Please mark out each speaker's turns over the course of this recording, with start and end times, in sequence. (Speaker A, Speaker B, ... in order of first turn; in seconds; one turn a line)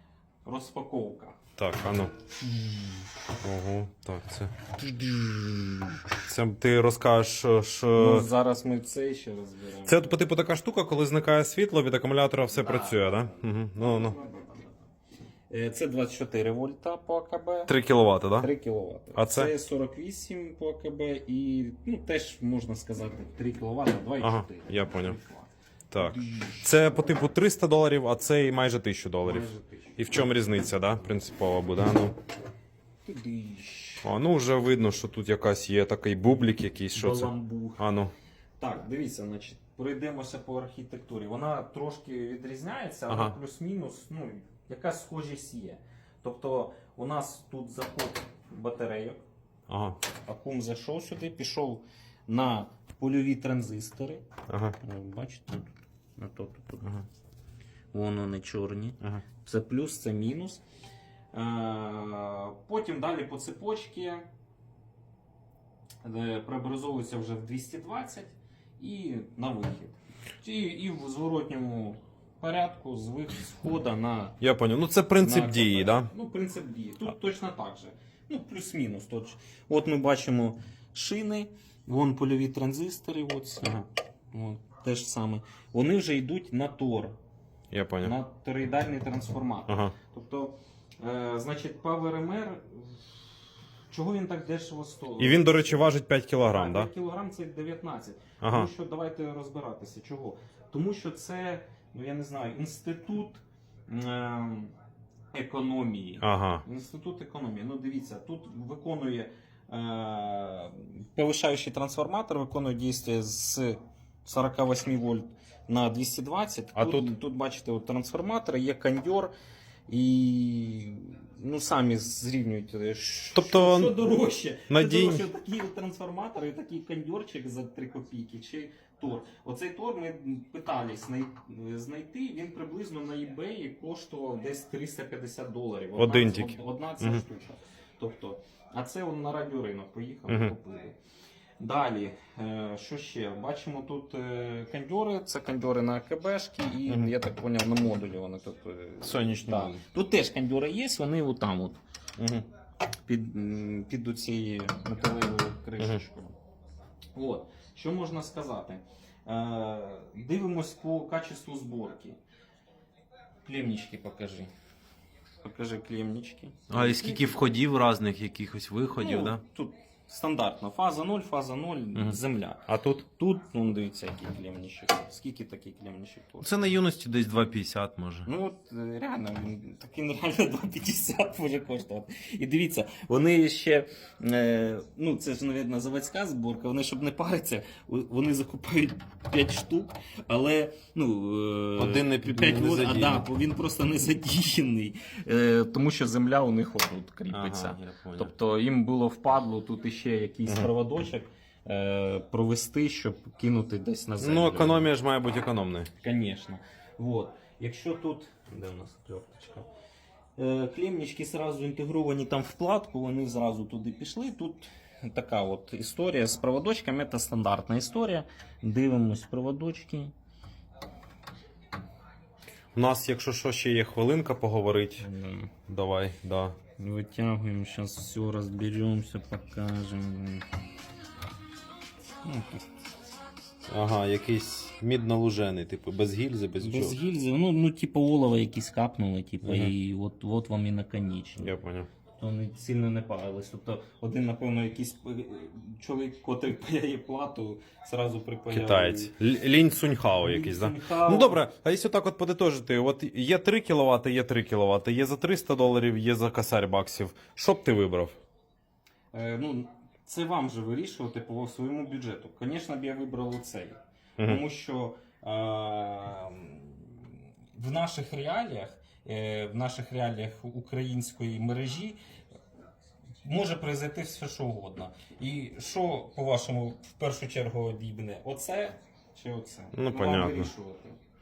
Speaker A: 0.4-1.4
Speaker B: 1.6-2.1
Speaker A: 2.4-3.0
Speaker B: 3.4-4.5
Speaker A: 4.8-5.9
Speaker B: 6.3-8.3
Speaker A: 8.0-10.2
Speaker B: 9.8-14.2
Speaker A: 12.5-14.8
Speaker A: 15.5-17.7
Speaker B: 17.7-18.5
Speaker A: 18.4-26.6
Speaker B: 19.1-19.5
Speaker B: 24.2-25.2
Speaker B: 25.9-32.1
Speaker A: 29.2-30.0
Speaker A: 33.0-34.1
Speaker B: 34.0-38.1
Speaker A: 36.9-37.8
Speaker A: 38.6-49.2
Speaker B: 43.1-43.4
Speaker B: 49.7-50.0
Speaker A: 50.2-54.2
Speaker B: 54.5-54.8
Speaker A: 54.8-57.0
Speaker A: 57.9-60.6
Speaker A: 61.3-64.3
Speaker A: 66.0-74.4
Speaker B: 74.4-76.1
Speaker A: 75.2-87.2
Speaker B: 87.7-88.1
Speaker A: 88.0-93.3
Speaker B: 89.7-89.9
Speaker A: 93.9-95.8
Speaker B: 95.2-96.9
Speaker A: 96.4-104.7
Speaker B: 98.4-98.7
Speaker A: 105.3-119.3
Speaker B: 106.2-106.6
Speaker B: 116.7-117.1
Speaker A: 119.9-141.0
Speaker B: 123.3-123.9
Speaker B: 124.7-125.2
Speaker B: 135.9-137.2
Speaker B: 140.3-140.5
Speaker A: 141.6-151.8
Speaker B: 149.0-149.8
Speaker B: 152.2-152.4
Speaker A: 153.1-156.3
Speaker A: 157.1-162.2
Speaker A: 163.4-164.5
Speaker A: 165.4-167.4
Speaker B: 166.7-169.4
Speaker A: 169.0-176.5
Speaker B: 171.9-173.0
Speaker B: 176.4-178.3
Speaker A: 178.2-204.9
Speaker B: 191.8-193.2
Speaker B: 197.3-198.3
Speaker B: 204.2-205.9
Speaker A: 206.0-209.7
Speaker A: 210.4-220.1
Speaker B: 222.7-225.1
Speaker A: 225.0-225.5
Speaker B: 225.7-226.6
Speaker A: 226.8-230.4
Speaker A: 232.2-232.7
Speaker B: 233.7-237.0
Speaker A: 236.6-241.5
Speaker B: 239.4-239.7
Speaker B: 241.4-241.9
Speaker A: 242.2-249.1
Speaker B: 248.5-258.2
Speaker A: 250.2-251.4
Speaker A: 259.1-272.0
Speaker A: 273.2-281.0
Speaker B: 279.7-280.5